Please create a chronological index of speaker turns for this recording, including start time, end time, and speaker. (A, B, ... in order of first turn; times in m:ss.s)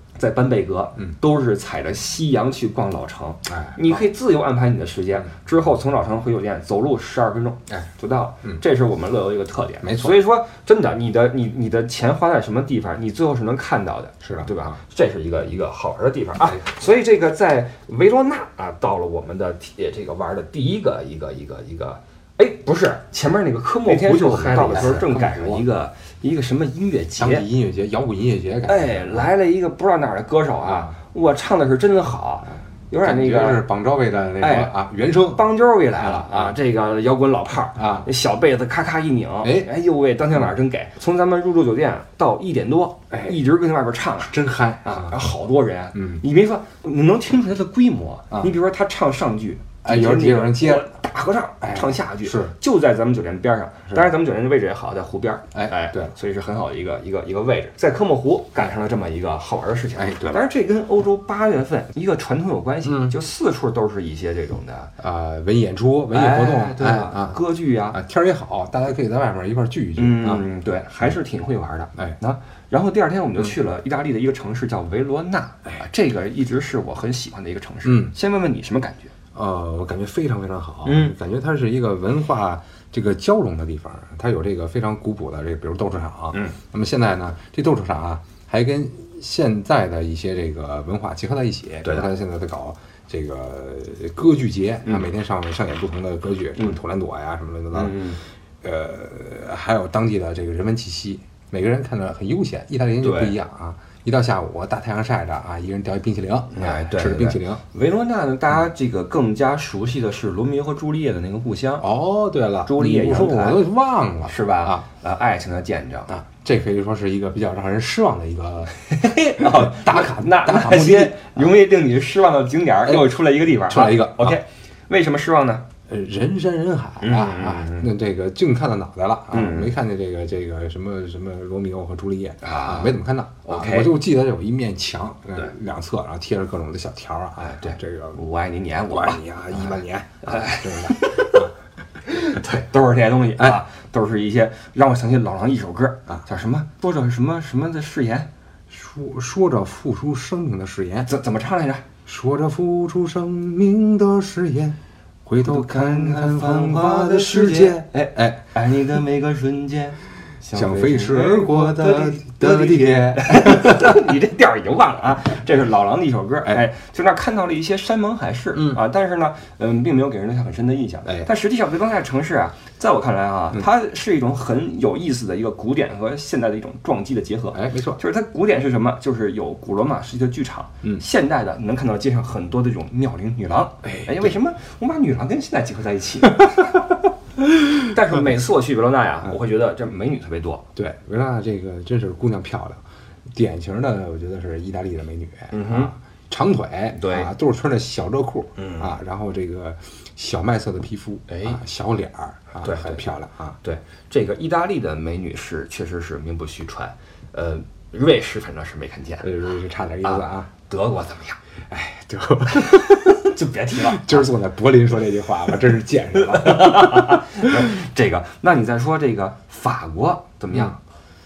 0:00.2-0:27.4 A
0:03.4-0:03.8 B
0:09.8-0:10.1 B
0:14.2-0:14.7 B
0:23.8-0:25.6 B
0:27.2-0:29.3 B
0:28.6-0:33.6 A
0:30.6-0:30.9 B
0:33.0-0:35.4 B
0:34.4-0:34.7 A
0:35.3-1:04.9 A
0:36.0-0:36.5 B
0:37.8-0:38.1 B
0:39.4-0:39.7 B
0:43.1-0:43.4 B
0:44.2-0:45.2 B
0:45.9-0:46.2 B
0:49.8-0:50.9 B
0:51.6-0:52.5 B
0:55.5-0:56.1 B
1:00.0-1:00.4 B
1:02.8-1:03.2 B
1:05.0-1:07.4 B
1:06.1-1:08.0 A
1:07.9-1:10.4 B
1:10.0-1:19.1 A
1:17.8-1:18.1 B
1:19.3-1:38.0 B
1:20.8-1:21.1 A
1:37.7-1:38.2 A
1:38.6-1:47.6 B
1:43.0-1:43.4 A
1:46.6-1:51.9 A
1:51.8-1:54.8 B
1:52.6-1:53.6 A
1:54.2-1:56.1 A
1:56.1-1:58.7 B
1:58.8-2:05.6 A
1:59.4-2:01.5 B
2:03.7-2:04.4 B
2:05.9-2:18.2 B
2:07.0-2:07.9 A
2:09.3-2:09.7 A
2:12.4-2:13.9 A
2:17.4-2:21.4 A
2:18.9-2:21.5 B
2:22.0-2:28.3 A
2:28.7-2:31.1 B
2:31.0-2:31.8 A
2:32.0-2:38.4 B
2:35.4-3:06.8 A
2:40.5-2:44.1 B
2:48.5-2:48.8 B
2:57.5-2:58.0 B
3:03.8-3:04.3 B
3:07.8-3:10.6 A
3:10.8-3:12.8 B
3:13.3-3:23.6 B
3:15.5-3:15.9 A
3:16.9-3:17.3 A
3:18.6-3:18.9 A
3:21.3-3:21.6 A
3:22.6-3:23.1 A
3:23.6-3:29.3 A
3:29.2-3:30.5 B
3:30.0-3:31.4 A
3:31.7-3:37.6 B
3:33.2-3:34.3 A
3:36.2-3:40.8 A